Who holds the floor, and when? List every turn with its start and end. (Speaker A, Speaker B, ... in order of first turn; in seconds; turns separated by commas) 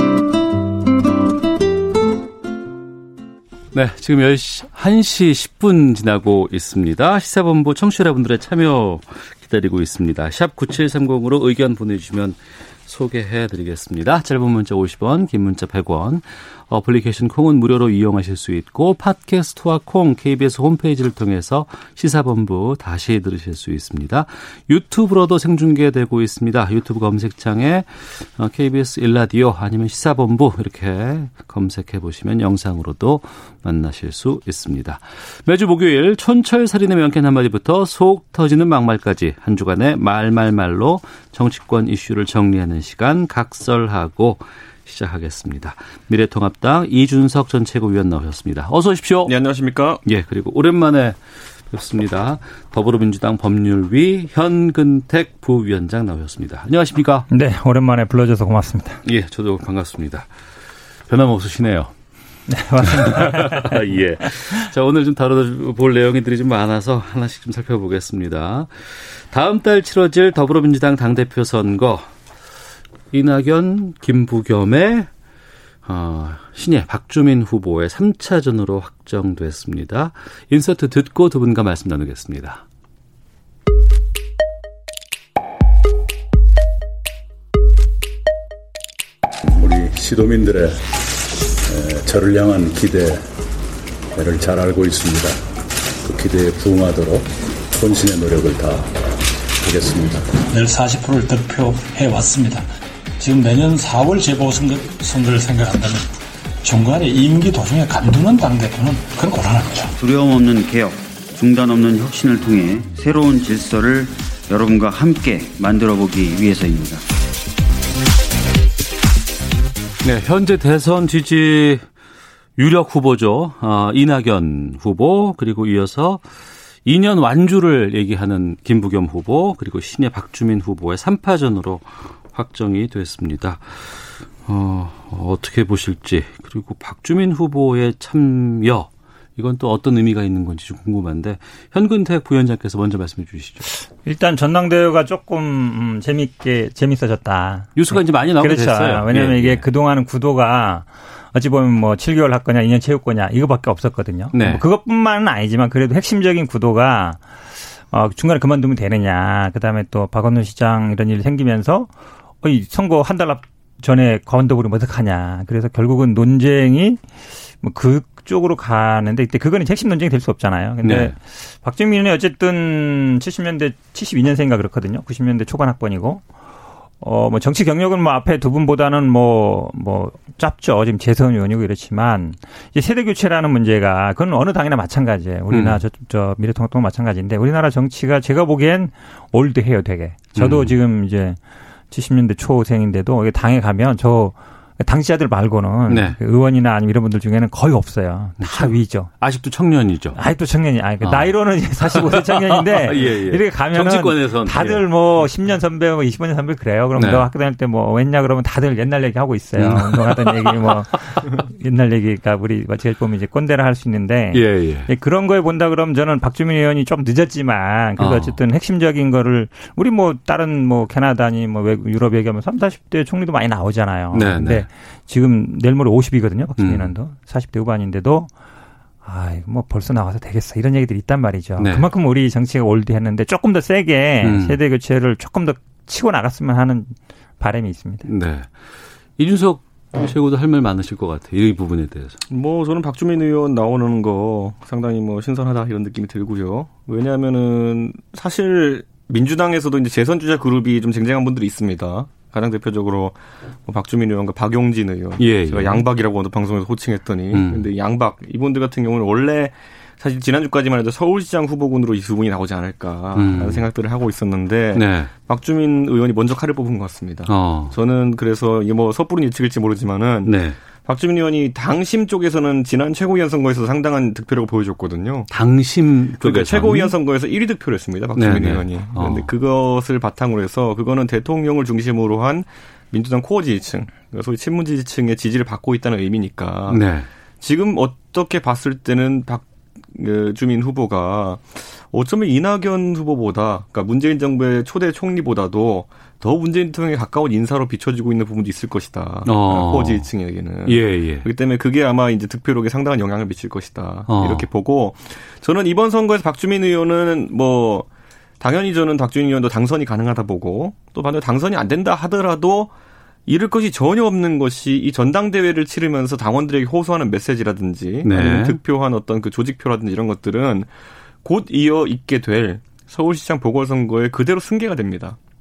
Speaker A: 3.7-49.4, Speaker B: 49.2-50.0, Speaker A: 50.0-57.3, Speaker C: 57.3-59.0, Speaker A: 59.0-60.3, Speaker A: 61.1-61.9, Speaker C: 62.5-63.8, Speaker A: 62.8-72.1, Speaker A: 73.1-75.1, Speaker A: 75.8-82.6, Speaker D: 89.5-90.8, Speaker D: 91.7-93.3, Speaker D: 94.1-95.4, Speaker D: 96.0-99.0, Speaker D: 99.6-100.4, Speaker E: 100.5-102.7, Speaker E: 103.2-106.1, Speaker E: 106.6-109.9, Speaker F: 110.0-117.0, Speaker A: 120.0-121.8, Speaker A: 122.6-126.2, Speaker A: 126.8-143.7, Speaker C: 144.0-157.2, Speaker A: 147.8-149.6, Speaker A: 154.3-154.6, Speaker C: 157.9-161.9, Speaker C: 162.4-167.0, Speaker C: 167.6-176.2, Speaker A: 170.8-171.1, Speaker C: 177.0-191.4, Speaker A: 185.5-185.8, Speaker A: 190.3-190.7, Speaker C: 191.9-199.1, Speaker A: 195.9-196.2, Speaker A: 198.4-200.2, Speaker C: 200.2-228.3, Speaker A: 201.0-204.8, Speaker A: 207.0-207.3, Speaker A: 209.6-211.2, Speaker A: 214.3-214.9, Speaker A: 218.0-218.4, Speaker A: 224.1-224.7, Speaker A: 226.6-226.9, Speaker C: 229.0-238.1, Speaker A: 231.6-231.9, Speaker A: 234.2-234.6, Speaker A: 238.1-242.2, Speaker B: 242.3-275.3, Speaker A: 255.2-255.8, Speaker A: 257.3-257.7, Speaker A: 263.1-263.7, Speaker A: 264.7-265.1, Speaker A: 267.3-267.8, Speaker A: 270.3-270.6, Speaker A: 275.3-276.9, Speaker B: 276.2-286.9, Speaker A: 278.2-279.3, Speaker A: 286.7-287.1, Speaker B: 287.4-307.9, Speaker A: 299.3-300.1, Speaker A: 300.6-301.3, Speaker A: 304.1-304.5, Speaker B: 308.4-312.7, Speaker B: 313.3-320.7, Speaker A: 318.0-318.6, Speaker B: 321.2-325.2